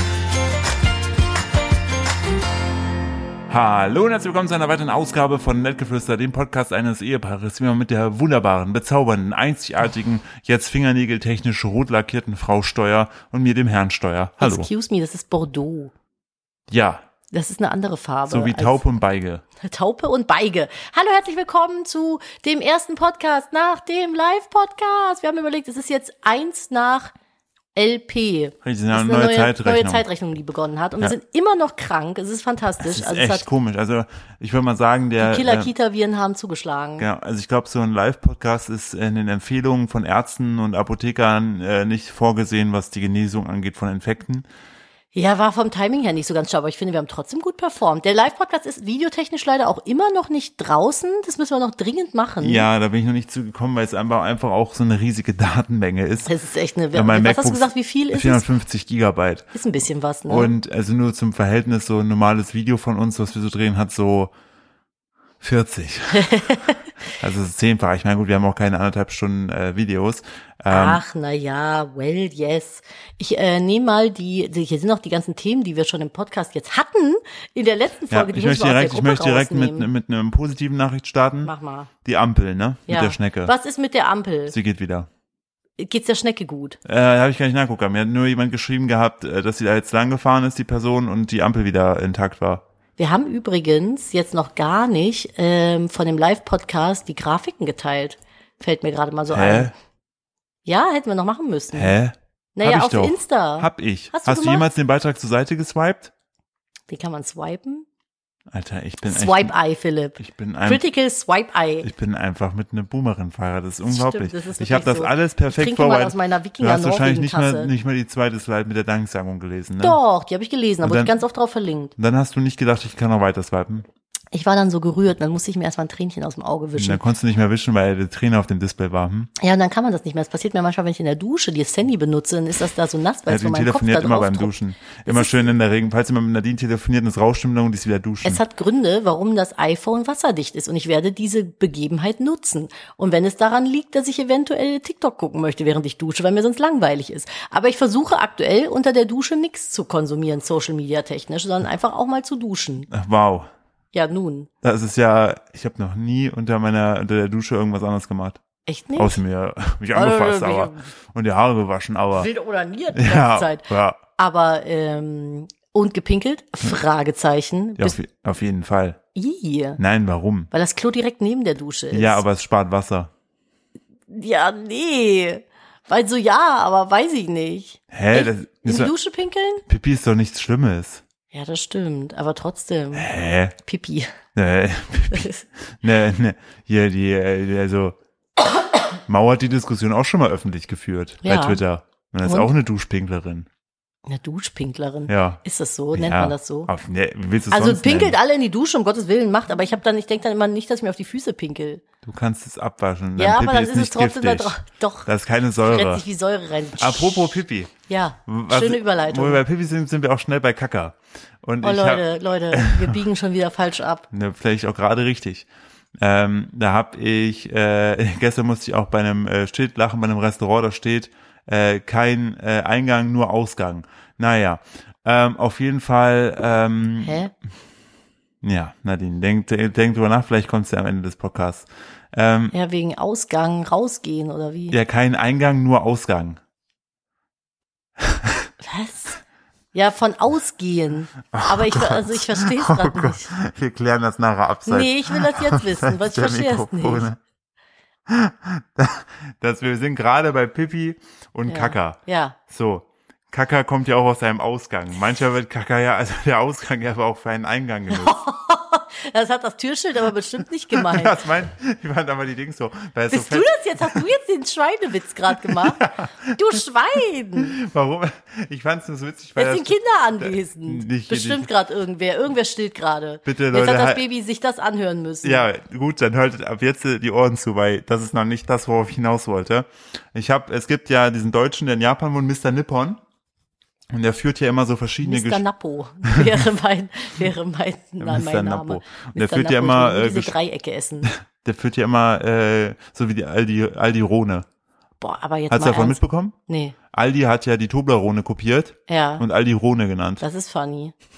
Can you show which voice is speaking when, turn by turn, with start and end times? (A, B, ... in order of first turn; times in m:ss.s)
0:03.5-0:14.7 A
0:14.4-0:15.9 B
0:16.7-0:17.0 A
0:17.3-0:18.8 B
0:18.3-0:19.4 A
0:19.6-0:27.1 B
0:27.8-0:33.5 B
0:28.6-0:30.1 A
0:32.8-0:35.7 A
0:35.2-0:37.1 B
0:37.0-0:44.5 A
0:45.1-0:52.7 B
0:52.4-0:56.3 A
0:56.3-0:58.4 B
0:56.9-0:59.5 A
0:59.5-1:00.5 B
1:00.3-1:04.3 A
1:05.4-1:06.6 A
1:06.2-1:06.8 B
1:07.2-1:11.0 A
1:10.7-1:19.9 B
1:18.1-1:21.5 A
1:21.4-1:21.9 B
1:22.0-1:23.5 A
1:22.9-1:24.6 B
1:24.5-1:25.1 A
1:25.8-1:26.8 B
1:26.8-1:32.6 A
1:33.0-1:39.7 B
1:39.3-1:39.7 A
1:40.6-1:42.0 B
1:41.7-1:46.1 A
1:42.6-1:44.7 B
1:46.9-1:47.9 B
1:48.5-1:49.6 A
1:49.1-1:51.9 B
1:50.2-1:50.8 A
1:51.8-2:00.0 A
1:53.8-1:57.7 B
1:59.8-2:01.9 B
2:00.8-2:01.1 A
2:02.0-2:03.9 A
2:04.3-2:07.0 B
2:06.8-2:09.3 A
2:09.4-2:14.5 B
2:13.3-2:18.4 A
2:15.1-2:15.5 B
2:18.2-2:32.9 B
2:32.9-2:33.5 A
2:33.9-2:34.5 B
2:34.6-2:38.4 A
2:38.7-2:39.2 B
2:39.0-2:42.3 A
2:39.9-2:40.9 B
2:42.1-2:48.0 B
2:42.9-2:44.0 A
2:47.8-2:49.0 A
2:49.2-2:49.8 B
2:49.8-2:50.5 A
2:50.5-2:52.2 B
2:51.9-2:53.1 A
2:54.1-2:59.6 B
2:57.9-2:58.9 A
2:59.7-3:01.0 A
3:01.3-3:04.2 B
3:02.9-3:03.6 A
3:04.4-3:08.0 A
3:09.1-3:13.5 A
3:11.2-3:11.6 B
3:12.2-3:12.5 B
3:14.1-3:16.7 B
3:15.1-3:15.4 A
3:15.9-3:18.2 A
3:17.5-3:21.8 B
3:22.0-3:26.0 A
3:23.2-3:25.1 B
3:25.6-3:29.4 B
3:26.8-3:27.7 A
3:28.3-3:33.0 A
3:31.6-3:34.1 B
3:34.1-3:35.5 A
3:36.0-3:47.2 A
3:47.0-3:47.3 B
3:48.4-3:52.6 A
3:52.5-3:54.8 B
3:54.7-3:56.4 A
3:58.0-3:58.5 A
3:58.6-3:59.2 B
3:59.7-4:03.3 B
4:01.3-4:07.2 A
4:04.7-4:07.1 B
4:08.1-4:18.2 A
4:11.5-4:12.4 B
4:17.9-4:21.2 B
4:20.7-4:24.0 A
4:23.1-4:27.6 B
4:25.3-4:26.4 A
4:27.4-4:31.5 A
4:29.4-4:35.5 B
4:33.2-4:34.0 A
4:35.2-4:43.0 A
4:43.9-4:45.4 A
4:45.0-4:51.1 B
4:46.0-4:46.4 A
4:48.0-4:50.3 A
4:51.0-4:54.5 A
4:55.0-4:56.8 B
4:55.5-4:56.4 A
4:56.9-5:00.2 A
4:58.9-4:59.2 B
5:00.2-5:00.9 B